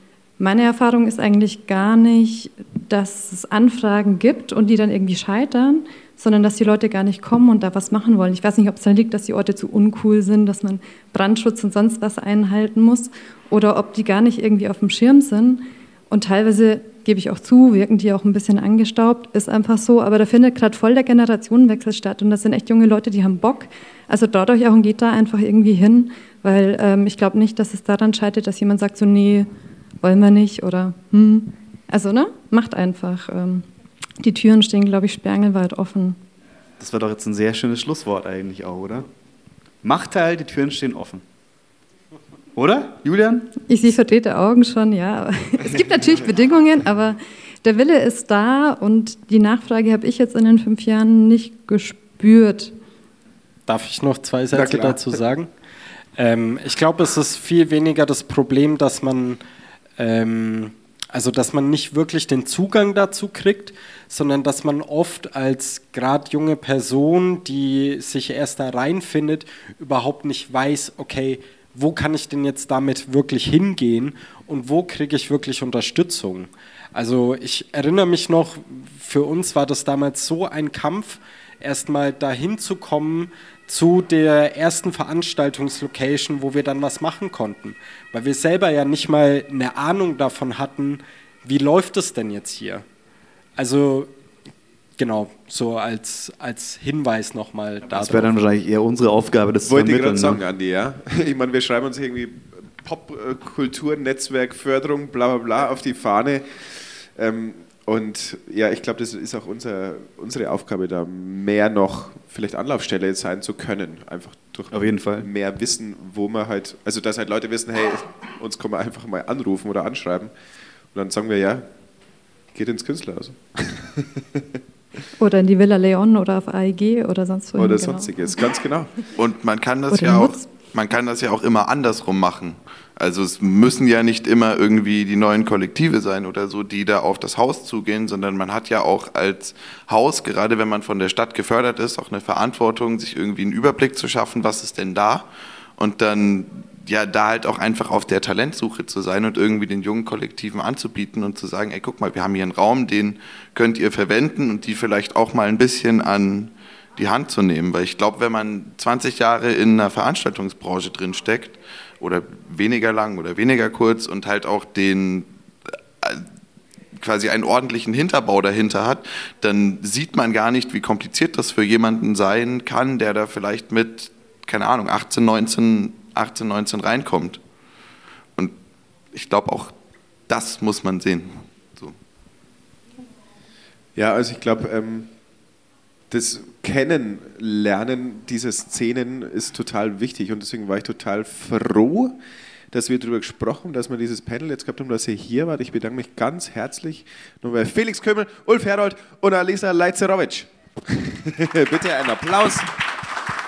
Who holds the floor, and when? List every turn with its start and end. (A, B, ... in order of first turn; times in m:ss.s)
0:00.4-0:29.5 A
0:30.0-0:33.7 A
0:34.2-0:36.2 A
0:36.8-0:39.1 B
0:39.8-0:41.2 B
0:42.5-0:43.5 B
0:43.6-0:52.8 A
0:53.7-0:55.5 C
0:54.5-0:55.1 D
0:56.2-0:59.4 C
1:00.0-1:32.8 C
1:33.6-1:34.1 C
1:35.0-1:38.3 C
1:37.9-1:40.4 B
1:39.6-2:00.3 D
1:54.7-1:55.3 B
2:00.9-2:01.7 D
2:02.5-2:04.6 D
2:05.2-2:08.4 A
2:07.5-2:08.9 D
2:09.2-2:45.3 E
2:09.9-2:10.4 A
2:46.0-2:46.2 E
2:47.0-2:57.4 E
2:59.1-2:59.7 E
3:00.3-3:02.0 E
3:04.0-3:05.1 D
3:06.1-3:12.2 D
3:12.7-3:22.8 D